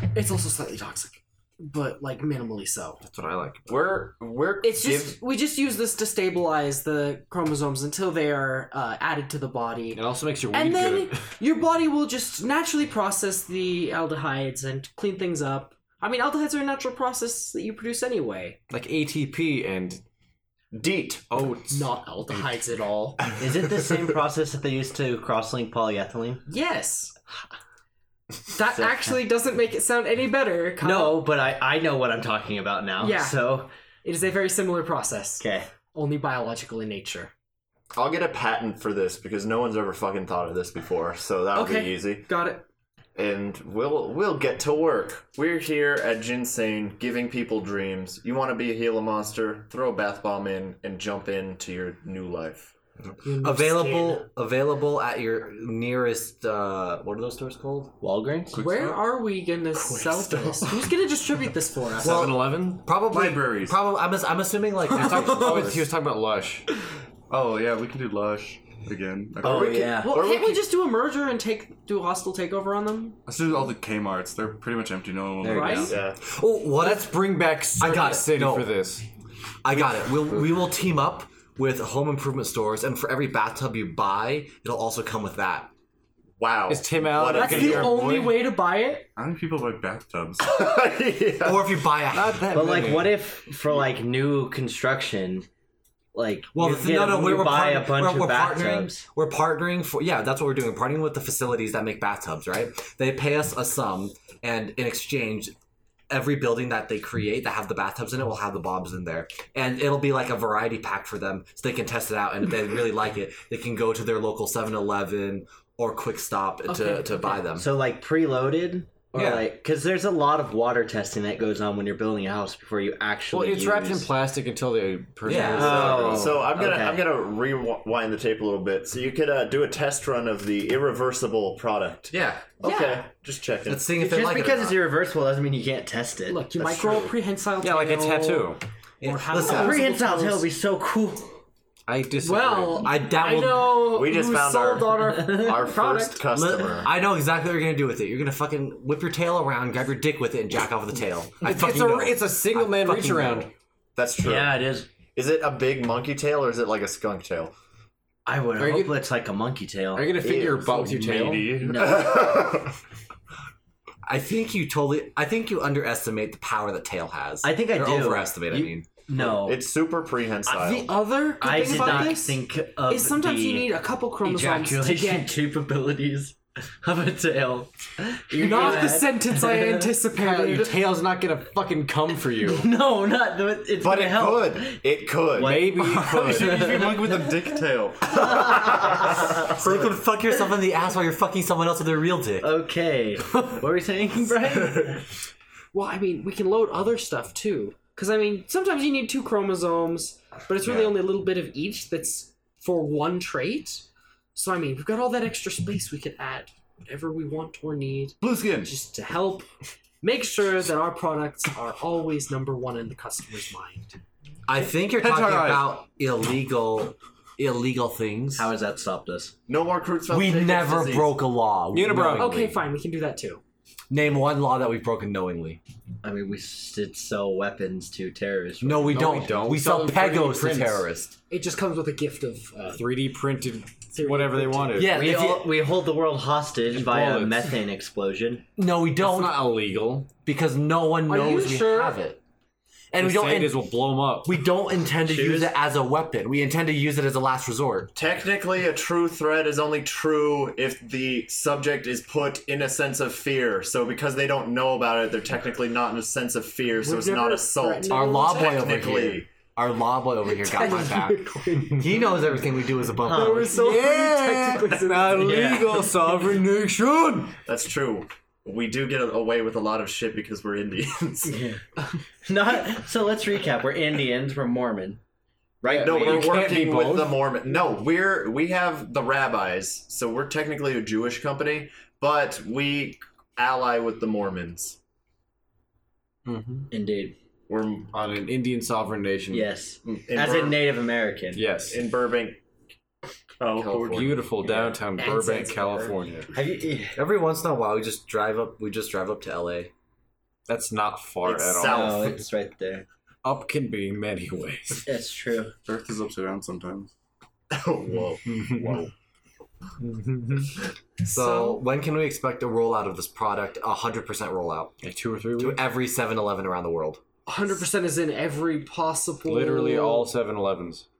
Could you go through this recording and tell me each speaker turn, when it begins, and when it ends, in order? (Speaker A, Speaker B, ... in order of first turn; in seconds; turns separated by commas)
Speaker A: 0.1-3.0, Speaker B: 3.0-3.6, Speaker C: 3.7-5.2, Speaker A: 4.6-18.6, Speaker B: 9.9-11.2, Speaker B: 18.7-20.0, Speaker C: 20.7-21.2, Speaker B: 21.3-21.9, Speaker A: 21.7-23.2, Speaker D: 23.4-26.4, Speaker A: 26.4-27.2, Speaker A: 28.5-31.2, Speaker D: 28.7-29.1, Speaker D: 30.8-33.7, Speaker A: 33.0-37.3, Speaker D: 35.4-35.7, Speaker C: 37.9-42.3, Speaker A: 41.5-42.6, Speaker C: 43.1-52.7, Speaker E: 53.2-57.9, Speaker A: 53.2-54.2, Speaker D: 58.0-58.7, Speaker F: 58.5-59.0, Speaker A: 58.5-62.3, Speaker C: 59.8-60.7, Speaker B: 62.0-62.8, Speaker E: 62.0-65.9, Speaker F: 63.0-63.8, Speaker B: 64.9-66.7, Speaker F: 67.3-69.8, Speaker D: 69.4-70.2, Speaker C: 69.4-70.6, Speaker A: 70.0-73.2, Speaker F: 73.2-75.9, Speaker A: 75.4-75.9, Speaker D: 75.4-76.0, Speaker C: 75.9-76.2, Speaker E: 76.3-77.2, Speaker B: 76.8-79.0, Speaker E: 77.8-78.7, Speaker E: 79.6-85.7, Speaker C: 86.4-88.0, Speaker B: 86.7-88.4, Speaker A: 87.3-89.1, Speaker F: 89.2-90.5, Speaker C: 90.4-91.7, Speaker E: 91.4-92.5, Speaker B: 92.1-93.3, Speaker D: 92.5-95.5, Speaker D: 96.1-99.0, Speaker E: 96.5-105.5, Speaker E: 106.1-117.7, Speaker A: 116.7-117.4, Speaker D: 117.5-124.1, Speaker E: 119.2-119.4, Speaker B: 123.3-126.5, Speaker E: 125.2-126.2, Speaker D: 125.5-127.1, Speaker C: 125.8-133.9, Speaker E: 132.1-132.5, Speaker A: 132.6-133.0, Speaker E: 133.7-134.8, Speaker D: 133.9-137.1, Speaker A: 136.3-140.5, Speaker B: 137.6-138.6, Speaker E: 139.0-139.8, Speaker D: 139.3-141.3, Speaker B: 141.9-142.9, Speaker A: 142.2-146.2, Speaker E: 142.8-143.9, Speaker C: 143.8-146.9, Speaker E: 146.3-153.5, Speaker B: 151.4-153.5, Speaker C: 153.9-157.5, Speaker D: 154.2-154.9, Speaker D: 158.2-161.0, Speaker B: 158.6-159.0, Speaker B: 159.9-161.7, Speaker F: 161.0-161.8, Speaker D: 161.5-162.4, Speaker C: 161.7-162.7, Speaker E: 164.0-168.9, Speaker D: 167.4-169.6, Speaker C: 169.1-171.0, Speaker A: 170.4-175.3, Speaker D: 171.4-179.9, Speaker A: 178.3-180.8, Speaker B: 180.1-182.7, Speaker D: 182.4-184.8, Speaker C: 183.8-185.7, Speaker D: 185.3-187.3, Speaker B: 185.4-186.9, Speaker F: 185.8-188.7, Speaker C: 187.6-189.2, Speaker D: 188.1-189.5, Speaker E: 189.2-192.5, Speaker D: 192.4-195.0, Speaker A: 195.7-209.5, Speaker F: 208.2-208.7, Speaker A: 210.0-214.0, Speaker E: 214.5-218.5, Speaker F: 214.9-215.8, Speaker D: 218.3-219.3, Speaker C: 219.5-221.2, Speaker E: 220.1-222.6, Speaker B: 221.7-222.3, Speaker A: 222.2-223.4, Speaker E: 223.9-225.6, Speaker D: 226.0-229.3, Speaker E: 228.6-231.2, Speaker B: 228.9-230.8, Speaker A: 231.3-232.8, Speaker B: 232.7-235.2, Speaker A: 233.9-234.9, Speaker E: 234.8-235.4, Speaker D: 234.8-238.4, Speaker B: 236.7-237.6, Speaker E: 238.6-239.5, Speaker B: 239.0-240.1, Speaker E: 240.2-242.2, Speaker A: 241.1-242.0, Speaker E: 242.9-243.6, Speaker B: 243.0-244.4, Speaker E: 244.2-247.9, Speaker D: 245.1-245.5, Speaker C: 247.9-259.3, Speaker A: 256.8-258.6, Speaker E: 257.9-263.5, Speaker A: 260.2-262.4, Speaker D: 263.0-263.5, Speaker A: 263.1-265.4, Speaker B: 263.4-267.3, Speaker D: 265.1-265.8, Speaker C: 267.4-271.4, Speaker D: 271.3-271.6, Speaker D: 272.2-275.0, Speaker D: 275.6-276.6, Speaker C: 275.6-284.8, Speaker B: 275.7-277.3, Speaker B: 286.2-286.7, Speaker D: 286.7-287.1, Speaker C: 287.5-287.9, Speaker B: 287.9-289.5, Speaker D: 289.3-291.4, Speaker C: 289.8-290.8, Speaker B: 291.3-291.8, Speaker C: 291.6-292.4, Speaker C: 293.4-294.2, Speaker F: 293.7-293.9, Speaker B: 293.7-296.3, Speaker D: 294.4-294.8, Speaker A: 295.0-295.9, Speaker D: 296.3-297.0, Speaker E: 296.9-299.7, Speaker B: 300.5-302.1, Speaker C: 301.2-302.2, Speaker D: 301.6-302.9, Speaker B: 303.2-304.9, Speaker D: 304.8-305.5, Speaker F: 305.6-306.9, Speaker C: 307.5-308.9, Speaker B: 308.3-308.6, Speaker B: 309.8-310.6, Speaker A: 311.1-311.6, Speaker E: 311.1-314.8, Speaker B: 314.8-315.6, Speaker E: 315.4-317.0, Speaker A: 317.2-320.1, Speaker B: 319.3-320.9